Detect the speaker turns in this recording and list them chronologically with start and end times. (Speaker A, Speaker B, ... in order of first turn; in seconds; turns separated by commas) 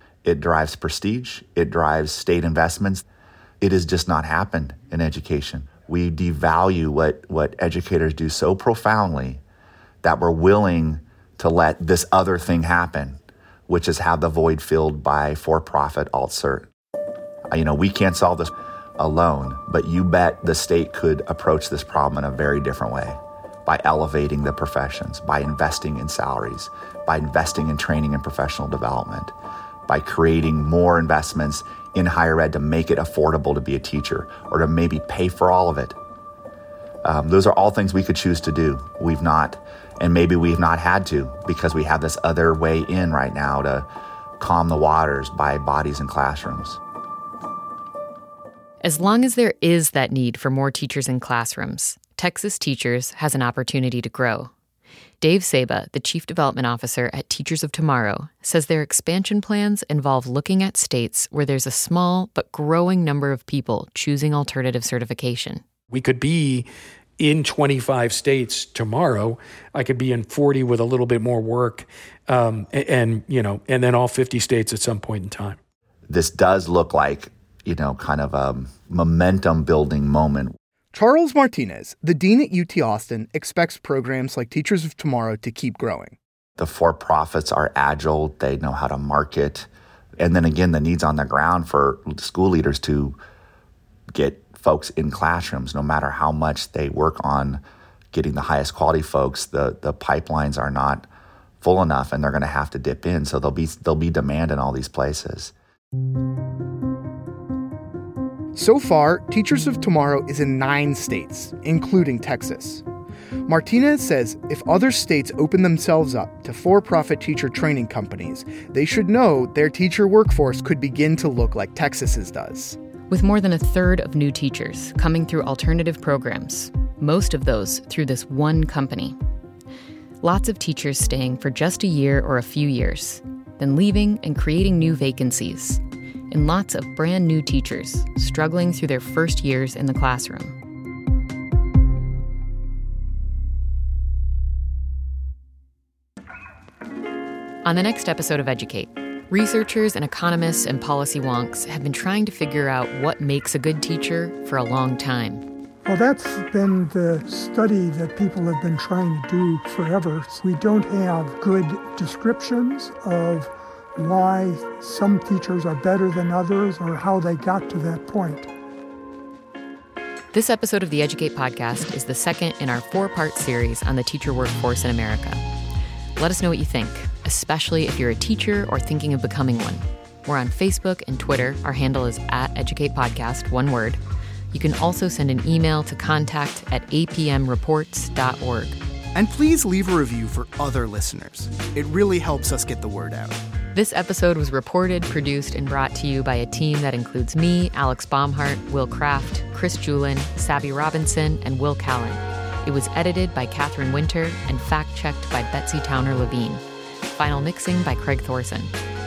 Speaker A: 0.2-3.0, Speaker A: 3.6-9.4, Speaker A: 10.0-16.7, Speaker A: 17.5-29.3, Speaker A: 29.9-36.0, Speaker A: 37.0-43.9, Speaker A: 44.4-46.8, Speaker B: 48.8-54.5, Speaker B: 55.2-65.6, Speaker C: 65.9-66.7, Speaker C: 67.2-75.6, Speaker A: 76.1-80.6, Speaker D: 80.9-86.2, Speaker A: 86.6-93.2, Speaker A: 94.1-101.1, Speaker A: 101.6-105.5, Speaker D: 108.5-112.8, Speaker D: 113.5-122.8, Speaker B: 123.1-129.2, Speaker B: 130.2-140.6, Speaker B: 147.6-155.4, Speaker E: 155.8-168.5, Speaker B: 170.3-175.4, Speaker B: 176.2-184.0, Speaker B: 184.5-188.8, Speaker D: 189.1-193.4, Speaker B: 193.7-206.6, Speaker B: 207.2-208.7